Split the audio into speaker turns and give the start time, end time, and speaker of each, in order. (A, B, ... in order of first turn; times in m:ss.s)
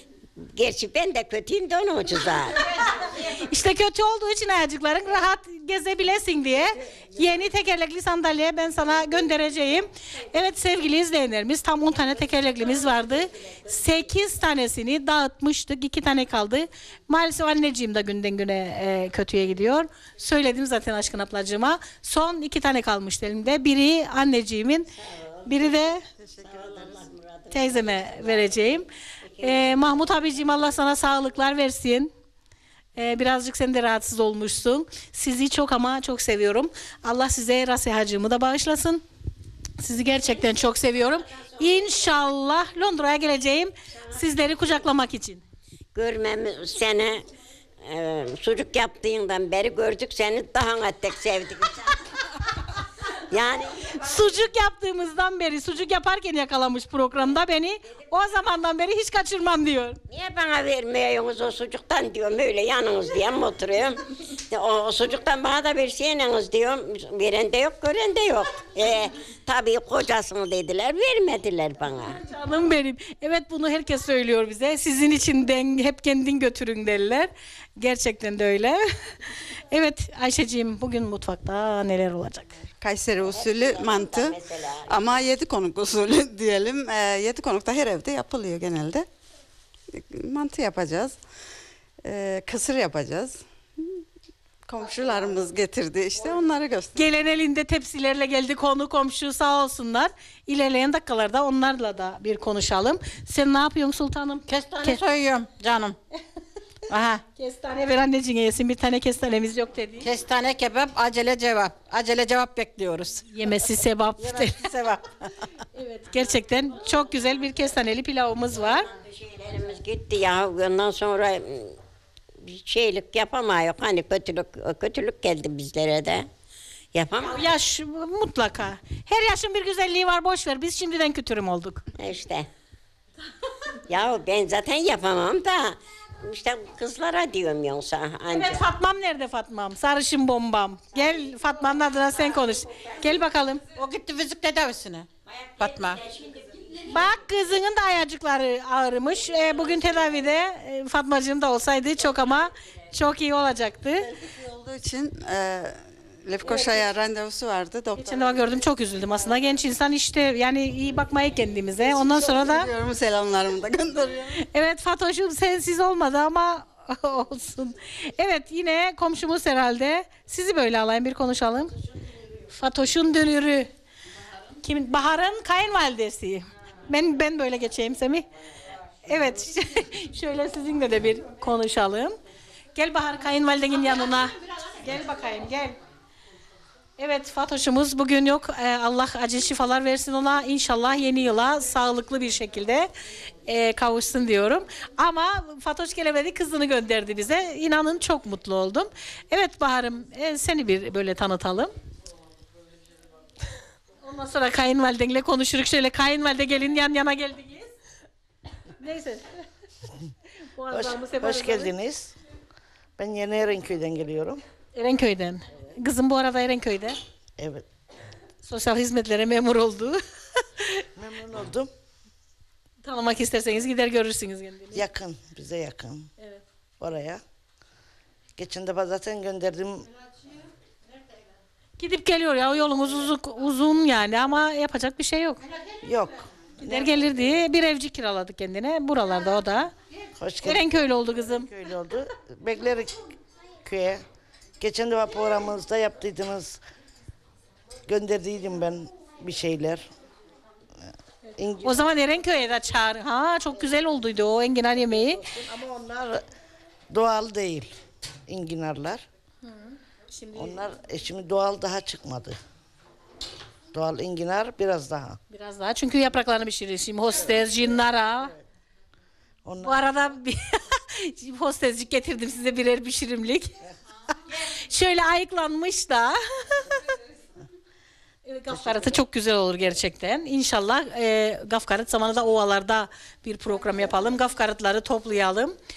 0:00.4-0:02.7 A
0:03.0-0:24.9 B
0:25.0-0:25.8 A
0:25.5-0:26.0 B
0:26.2-0:27.1 C
0:26.4-0:30.9 A
0:27.5-0:28.9 B
0:29.4-0:32.1 B
0:33.0-0:39.0 B
0:39.8-0:45.4 B
0:41.3-0:42.2 A
0:45.9-0:47.2 A
0:47.8-0:52.0 A
0:53.3-0:54.0 A
0:53.9-1:00.0 B
1:00.1-1:12.2 A
1:12.1-1:18.8 B
1:19.7-1:22.5 B
1:22.8-1:29.1 C
1:23.2-1:25.2 A
1:29.9-1:31.2 C
1:32.0-1:34.0 C
1:34.7-1:37.0 C
1:36.9-1:45.0 B
1:44.5-1:46.0 D
1:46.9-1:47.2 D
1:47.4-1:50.1 B
1:50.0-1:53.2 D
1:53.3-1:54.7 B
1:54.2-1:55.0 D
1:55.7-1:58.9 B
1:58.8-2:01.8 A
2:02.4-2:06.3 A
2:06.9-2:07.4 A
2:07.2-2:11.9 B
2:12.0-2:12.5 A
2:13.9-2:18.6 A
2:18.3-2:23.6 B
2:23.7-2:26.0 D
2:25.3-2:26.9 A
2:26.9-2:34.1 B
2:34.2-2:38.2 C
2:38.0-2:42.7 B
2:41.8-2:44.4 C
2:44.4-2:51.7 B
2:52.5-2:53.7 B
2:54.6-2:58.3 B
2:59.0-3:02.2 B
3:02.8-3:05.8 B
3:07.0-3:12.9 B
3:13.4-3:21.7 B
3:24.0-3:27.7 B
3:28.8-3:29.3 B
3:30.5-3:31.7 B
3:30.7-3:32.1 E
3:33.0-3:34.4 E
3:34.7-3:37.0 B
3:37.4-3:37.6 E
3:38.4-3:40.0 B
3:41.0-3:41.7 E
3:42.8-3:44.8 B
3:44.7-3:46.1 E
3:46.8-3:47.2 E
3:48.4-3:49.9 E
3:51.8-3:55.4 B
3:55.8-3:57.2 E
3:56.6-3:59.7 B
4:00.2-4:00.7 E
4:00.4-4:01.5 B
4:01.3-4:03.0 E
4:03.6-4:04.0 E
4:04.6-4:06.6 E
4:07.8-4:09.9 E
4:10.8-4:11.8 E
4:11.3-4:15.2 B
4:15.1-4:16.2 E
4:16.9-4:17.7 E
4:18.3-4:19.0 E
4:19.4-4:20.6 B
4:20.3-4:22.4 E
4:23.7-4:25.2 E
4:25.3-4:28.3 B
4:29.4-4:29.8 E
4:29.6-4:33.6 B
4:34.4-4:36.7 B
4:38.2-4:45.5 B